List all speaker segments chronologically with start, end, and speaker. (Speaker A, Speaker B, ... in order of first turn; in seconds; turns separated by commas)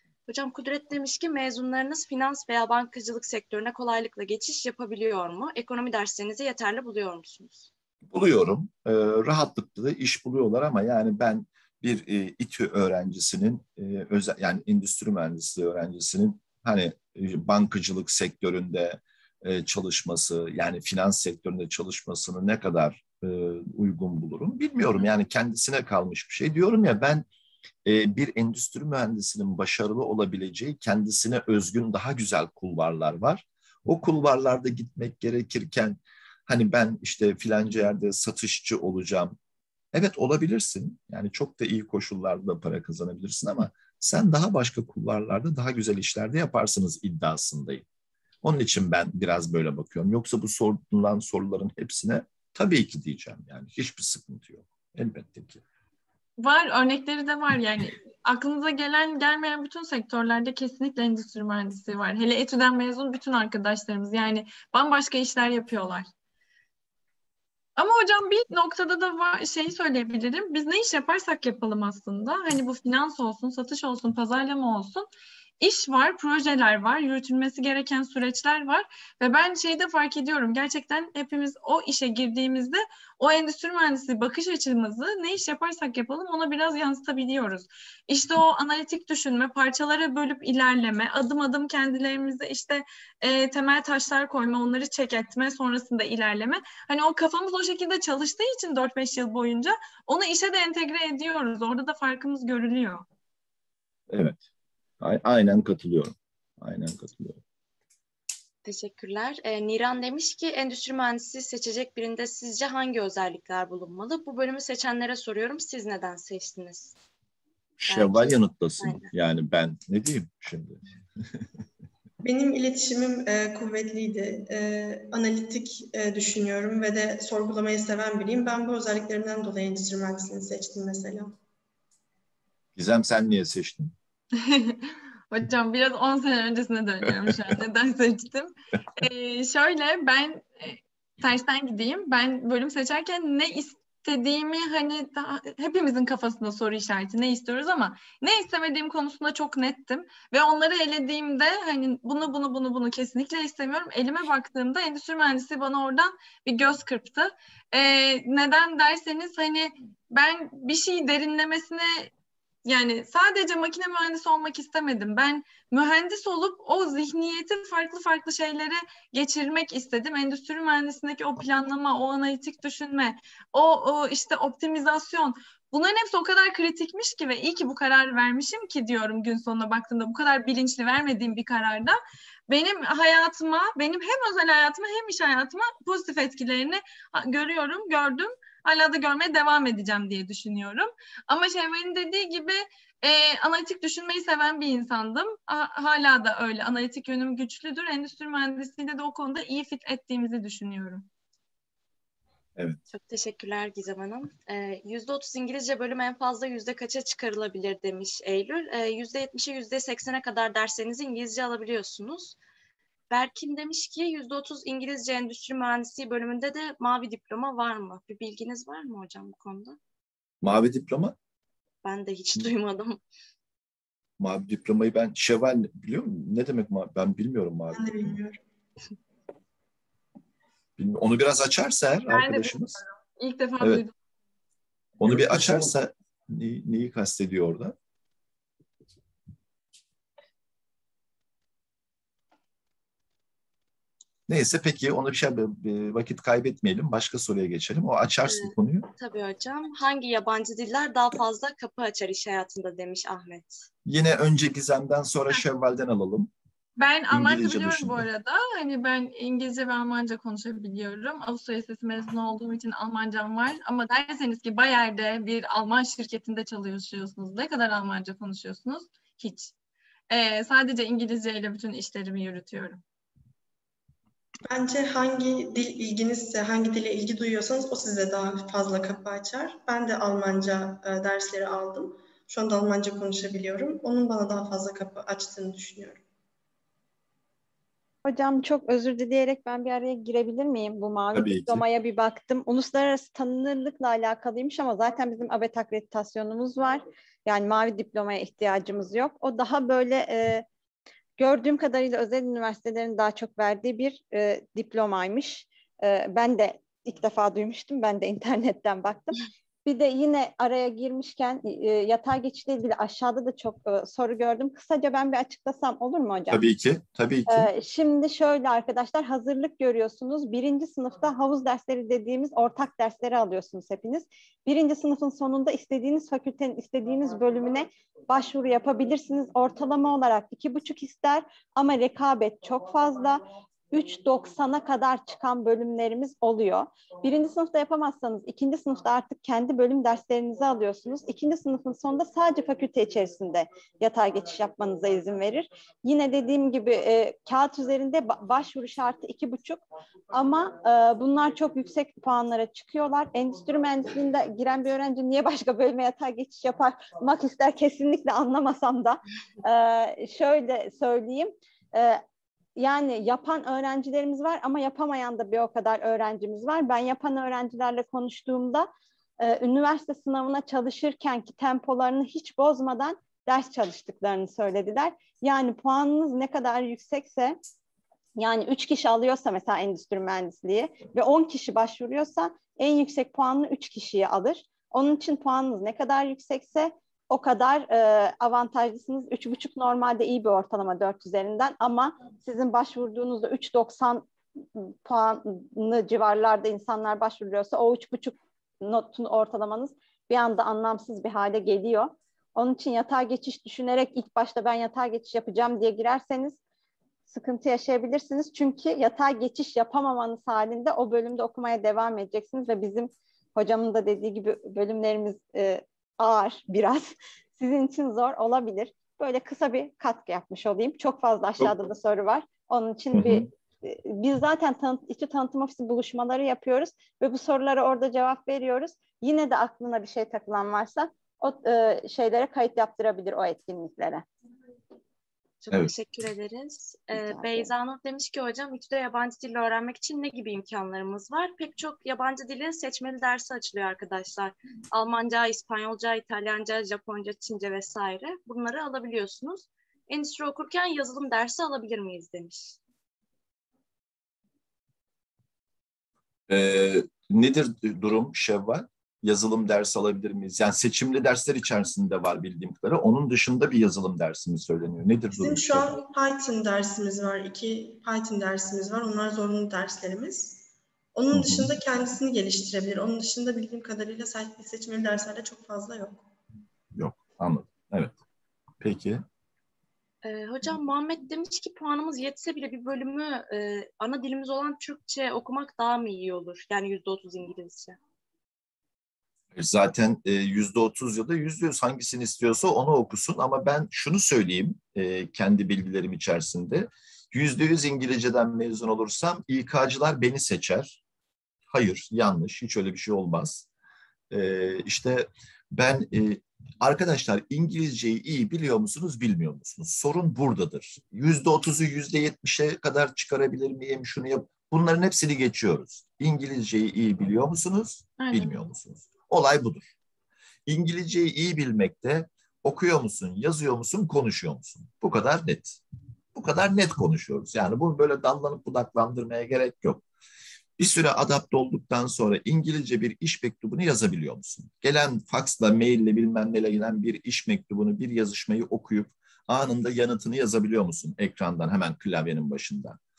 Speaker A: 0.3-7.7, Speaker B: 8.1-27.3, Speaker B: 27.8-39.4, Speaker B: 39.9-47.8, Speaker B: 48.4-55.6, Speaker C: 56.4-66.1, Speaker C: 67.8-75.1, Speaker C: 75.6-103.0, Speaker B: 104.1-104.4, Speaker B: 105.0-107.4, Speaker A: 108.6-117.0, Speaker B: 117.8-120.8, Speaker A: 117.9-119.1, Speaker D: 122.2-131.3, Speaker B: 132.8-133.9, Speaker C: 134.4-162.1, Speaker C: 162.6-201.1, Speaker A: 202.9-212.3, Speaker A: 213.1-219.8, Speaker B: 220.4-221.1, Speaker A: 221.8-223.0, Speaker B: 224.2-228.2, Speaker D: 227.7-228.4, Speaker B: 230.8-232.8, Speaker C: 232.1-233.9, Speaker B: 235.0-237.7, Speaker B: 244.3-248.9, Speaker A: 248.2-253.7, Speaker B: 253.8-256.3, Speaker C: 256.8-269.5, Speaker B: 257.1-258.1, Speaker C: 270.1-272.8, Speaker D: 274.5-286.0, Speaker E: 288.0-300.4, Speaker B: 291.1-291.6, Speaker E: 301.2-316.4, Speaker B: 316.3-317.5, Speaker E: 317.3-362.0, Speaker E: 362.6-377.4, Speaker E: 378.2-406.4, Speaker E: 407.1-434.0, Speaker B: 422.9-423.3, Speaker A: 435.4-452.6, Speaker E: 436.9-437.5, Speaker B: 456.3-465.7, Speaker D: 465.1-470.4, Speaker D: 470.9-476.0, Speaker B: 471.1-471.5, Speaker B: 476.7-477.9, Speaker B: 478.6-479.0, Speaker A: 480.0-487.8, Speaker B: 489.3-500.8, Speaker B: 501.5-503.4, Speaker B: 504.1-519.7, Speaker C: 518.0-518.3, Speaker B: 520.5-525.6, Speaker B: 526.1-529.8, Speaker B: 530.6-542.8